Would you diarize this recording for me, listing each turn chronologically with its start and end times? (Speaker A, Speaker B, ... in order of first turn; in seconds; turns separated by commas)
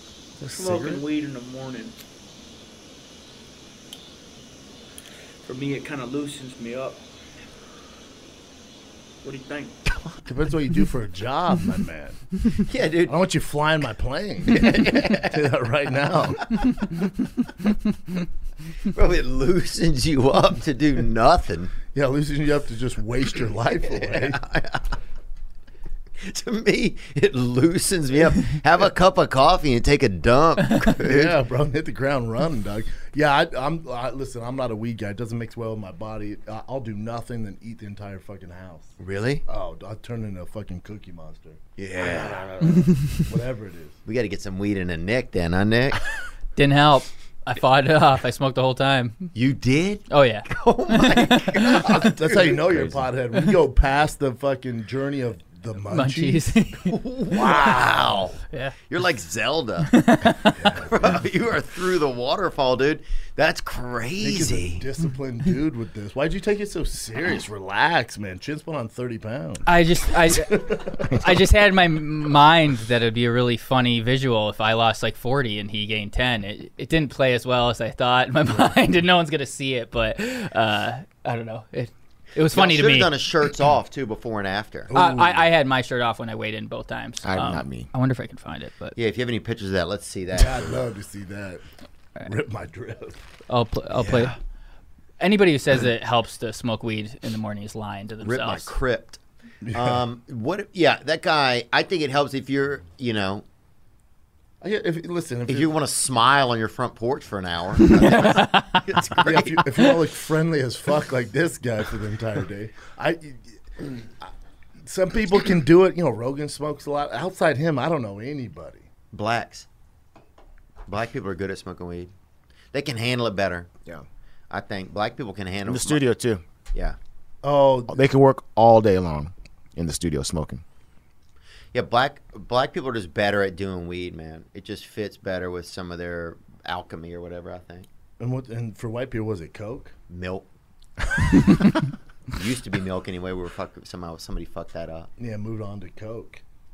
Speaker A: 0.5-1.9, Speaker B: 0.5-1.0, Speaker A: 5.4-7.0, Speaker A: 9.2-9.8, Speaker B: 10.2-12.2, Speaker C: 12.7-13.2, Speaker B: 13.1-16.5, Speaker C: 14.5-15.5, Speaker C: 18.9-21.7, Speaker B: 21.9-24.4, Speaker C: 23.8-24.9, Speaker C: 26.2-31.4, Speaker B: 31.0-38.9, Speaker C: 39.0-39.4, Speaker B: 39.5-44.0, Speaker C: 41.8-42.5, Speaker C: 44.0-46.0, Speaker D: 46.5-49.3, Speaker C: 49.3-53.0, Speaker D: 50.1-50.5, Speaker D: 51.1-51.6, Speaker B: 51.8-56.5, Speaker D: 55.9-56.9, Speaker C: 56.9-59.9, Speaker B: 57.3-58.2, Speaker D: 59.9-60.6, Speaker B: 60.5-61.2, Speaker C: 60.8-64.8, Speaker B: 64.2-69.7, Speaker D: 69.7-83.1, Speaker B: 70.3-71.2, Speaker C: 82.5-84.9, Speaker B: 84.9-85.5, Speaker D: 84.9-88.9, Speaker E: 87.2-87.9, Speaker C: 89.0-90.8, Speaker B: 90.3-91.6, Speaker B: 92.2-93.2, Speaker D: 93.5-94.3, Speaker D: 95.2-98.7, Speaker C: 98.2-99.2, Speaker B: 99.6-100.0, Speaker C: 99.7-103.4, Speaker B: 104.6-105.7, Speaker C: 105.5-109.7, Speaker D: 108.0-108.8, Speaker B: 109.2-114.3, Speaker B: 114.8-118.9, Speaker C: 119.1-119.7, Speaker C: 120.9-122.1, Speaker C: 122.7-123.7, Speaker C: 124.5-126.0, Speaker E: 125.6-126.4, Speaker B: 127.4-128.0, Speaker E: 127.9-130.6, Speaker C: 131.7-137.9, Speaker B: 138.2-139.9, Speaker C: 140.1-140.5, Speaker C: 142.3-145.1, Speaker B: 145.2-146.4